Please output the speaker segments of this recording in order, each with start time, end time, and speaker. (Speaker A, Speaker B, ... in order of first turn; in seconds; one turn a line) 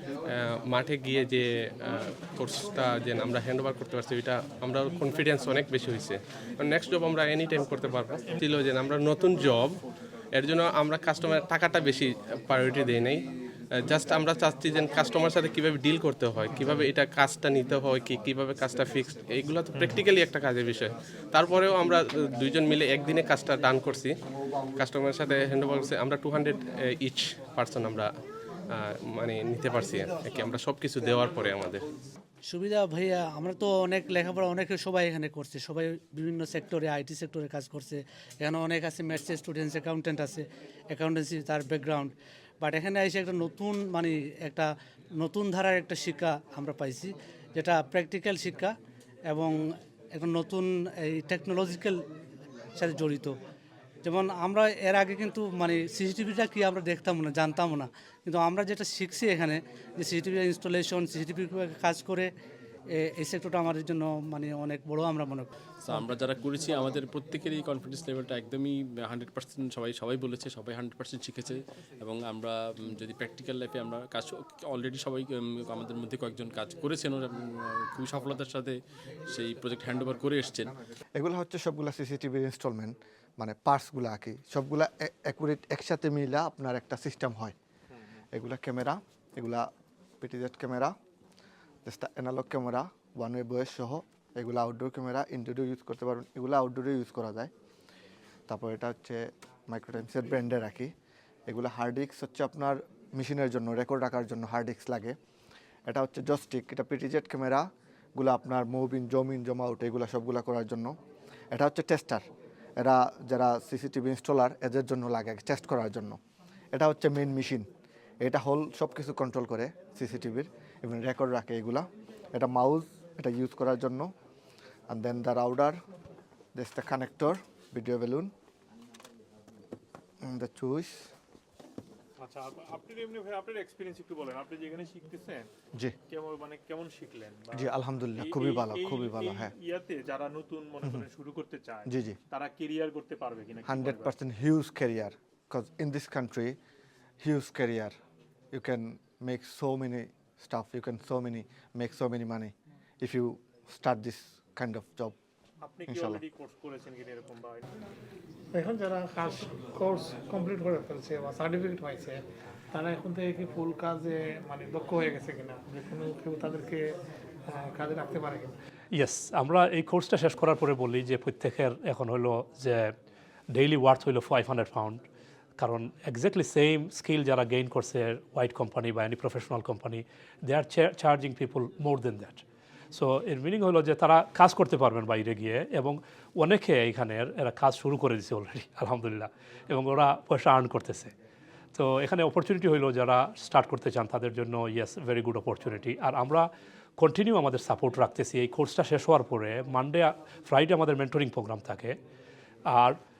Speaker A: 0.3-9.8
Speaker A: 10.3-13.2
Speaker A: 13.8-24.1
Speaker A: 24.8-28.1
Speaker A: 28.8-31.9
Speaker B: 32.4-48.8
Speaker B: 49.3-49.6
Speaker B: 50.1-52.0
Speaker B: 52.8-53.4
Speaker B: 54.0-62.3
Speaker B: 62.9-65.5
Speaker C: 65.8-78.8
Speaker C: 79.3-80.8
Speaker D: 81.2-87.5
Speaker D: 88.3-89.7
Speaker D: 90.2-90.9
Speaker D: 91.9-97.5
Speaker D: 98.5-100.9
Speaker D: 101.5-105.2
Speaker D: 105.9-111.0
Speaker D: 111.5-112.2
Speaker D: 112.8-116.2
Speaker D: 116.7-117.7
Speaker D: 118.2-124.1
Speaker D: 124.9-125.8
Speaker D: 126.5-128.3
Speaker D: 130.2-131.1
Speaker E: 132.2-135.5
Speaker E: 136.1-144.1
Speaker D: 137.5-139.5
Speaker D: 141.9-142.2
Speaker D: 143.7-146.6
Speaker D: 147.2-147.9
Speaker D: 148.5-155.2
Speaker E: 155.6-157.7
Speaker D: 155.9-156.2
Speaker F: 158.6-162.1
Speaker F: 162.7-166.7
Speaker F: 167.6-168.5
Speaker G: 168.9-172.9
Speaker G: 173.5-175.0
Speaker G: 175.6-191.1
Speaker G: 191.7-202.0
Speaker G: 202.7-203.0